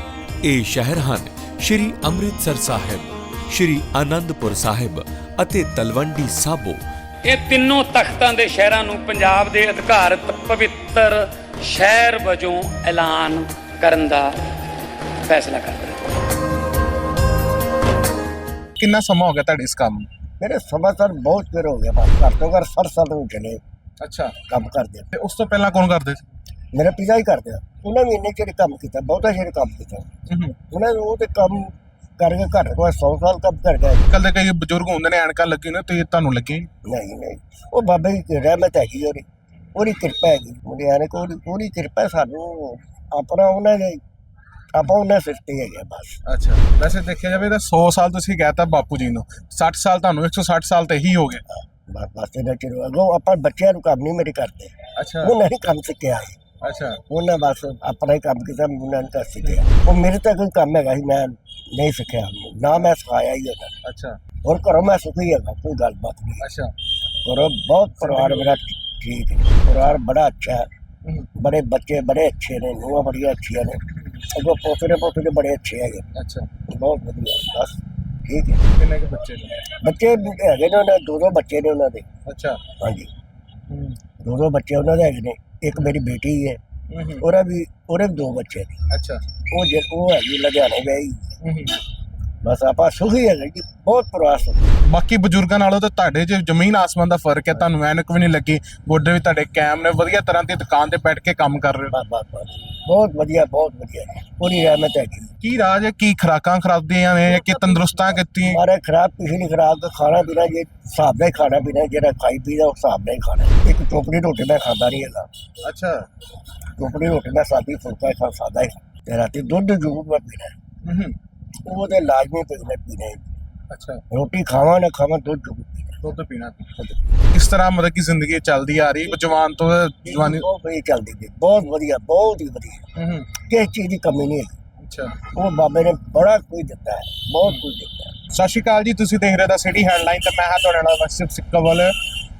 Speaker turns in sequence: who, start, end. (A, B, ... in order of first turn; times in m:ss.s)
0:00.4-0:06.8 A
0:07.2-0:14.4 B
0:15.2-0:16.0 B
0:18.8-0:20.0 C
0:20.4-0:23.6 D
0:24.0-0:24.3 C
0:24.5-0:25.1 D
0:25.1-0:26.2 C
0:26.7-0:30.1 D
0:30.3-0:30.5 C
0:30.7-0:34.0 D
0:34.1-0:36.7 C
0:36.8-0:44.0 D
0:44.7-0:46.2 D
0:46.2-0:51.4 C
0:51.5-0:56.4 D
0:55.0-0:55.4 C
0:56.6-0:57.0 C
0:57.1-1:03.7 D
0:59.4-0:59.7 C
1:03.8-1:04.2 C
1:04.4-1:06.4 D
1:06.4-1:06.7 C
1:07.2-1:10.7 D
1:08.0-1:08.6 C
1:11.3-1:16.1 D
1:13.9-1:14.2 C
1:16.1-1:16.5 C
1:16.7-1:18.6 D
1:18.7-1:19.6 C
1:19.8-1:22.1 D
1:22.3-1:22.6 C
1:22.8-1:23.1 D
1:23.7-1:24.0 C
1:24.2-1:26.6 D
1:26.9-1:27.2 C
1:27.2-1:28.8 D
1:28.9-1:29.2 C
1:29.5-1:31.3 D
1:31.4-1:31.8 C
1:32.4-1:34.8 D
1:34.8-1:41.9 C
1:41.9-1:45.3 D
1:45.4-1:48.6 C
1:47.3-1:55.3 D
1:55.6-1:56.0 C
1:56.8-2:00.6 D
2:00.8-2:01.2 C
2:01.6-2:03.3 D
2:03.7-2:04.0 C
2:04.1-2:06.0 D
2:06.0-2:06.7 C
2:06.8-2:07.0 D
2:07.3-2:10.4 C
2:10.0-2:12.9 D
2:12.9-2:13.3 C
2:13.4-2:14.5 D
2:14.8-2:15.2 C
2:15.3-2:18.1 D
2:18.3-2:21.9 C